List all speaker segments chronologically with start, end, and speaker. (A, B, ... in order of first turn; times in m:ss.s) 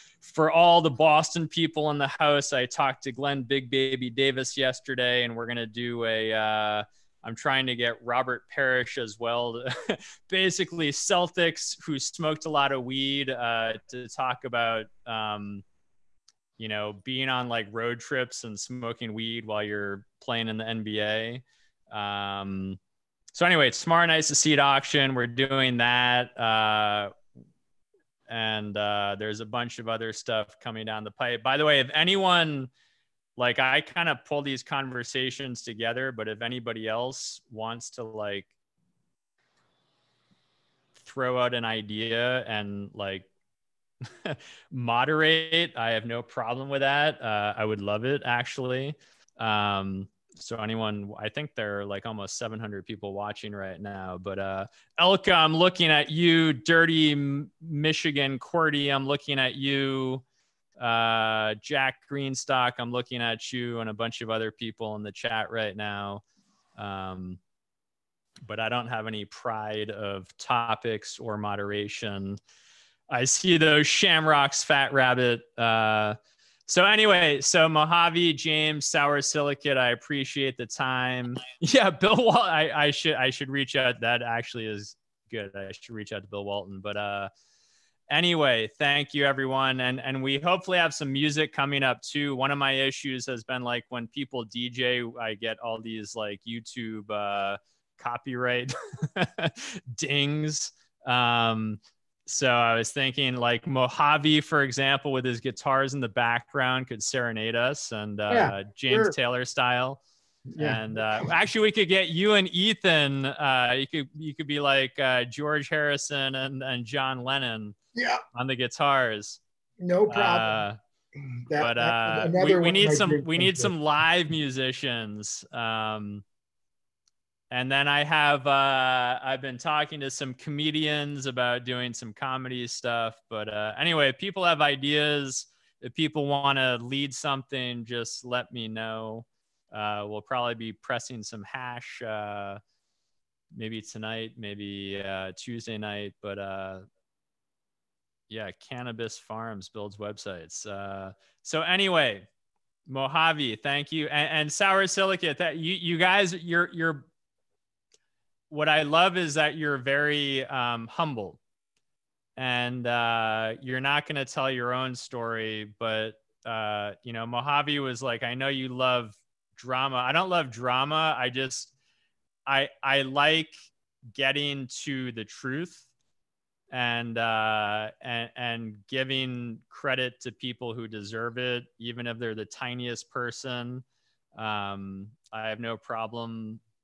0:00.2-0:15.6 A
0:16.6-0:22.8 A
0:23.3-0:27.1 A
0:28.3-0:32.7 A
0:33.4-0:38.5 A
0:41.0-0:43.3 A
0:44.1-1:00.2 A
1:00.8-1:06.2 A
1:06.8-1:07.4 A
1:08.4-1:12.4 A
1:13.1-1:27.3 A
1:28.1-1:50.0 A
1:48.3-1:49.2 B
1:50.5-1:51.3 B
1:50.6-1:57.8 A
1:58.0-1:58.2 B
1:58.4-1:59.4 A
1:59.8-2:00.6 B
2:00.1-2:00.8 A
2:01.5-2:03.7 B
2:01.6-2:06.2 A
2:07.5-2:22.6 A
2:23.5-2:26.9 A
2:28.3-2:32.3 A
2:32.9-2:37.1 A
2:38.5-2:41.4 A
2:42.4-2:51.7 A
2:52.5-2:53.5 A
2:54.2-2:55.8 A
2:56.7-3:03.8 A
3:04.4-3:06.6 A